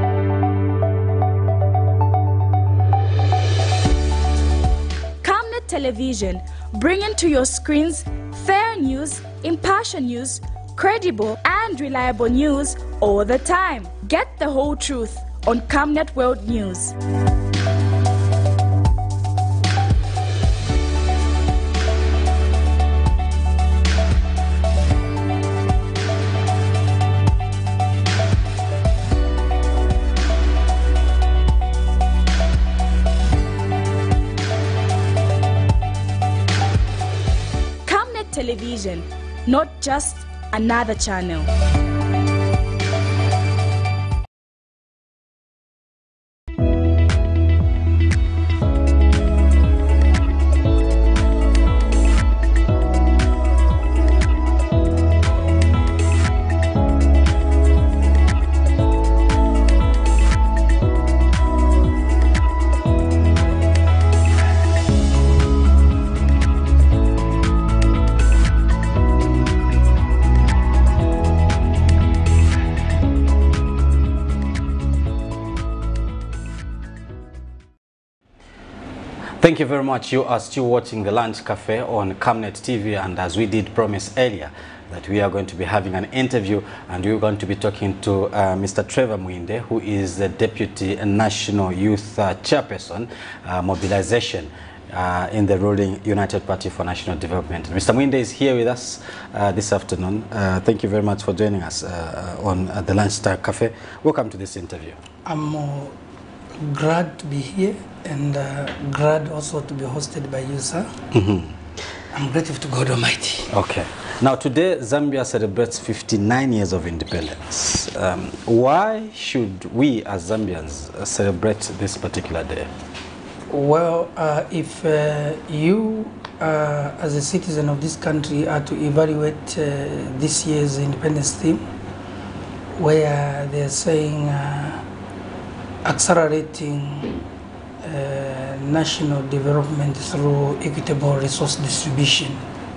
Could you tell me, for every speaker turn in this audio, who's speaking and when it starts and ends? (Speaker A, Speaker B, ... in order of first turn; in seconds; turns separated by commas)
Speaker A: 5.2-16.9, Speaker A: 37.9-41.5, Speaker B: 79.4-105.0, Speaker C: 105.2-105.9, Speaker C: 106.6-110.9, Speaker B: 111.1-111.5, Speaker C: 112.1-113.5, Speaker B: 113.5-122.7, Speaker C: 123.5-131.7, Speaker C: 132.8-134.9, Speaker C: 135.8-137.2, Speaker C: 137.8-142.5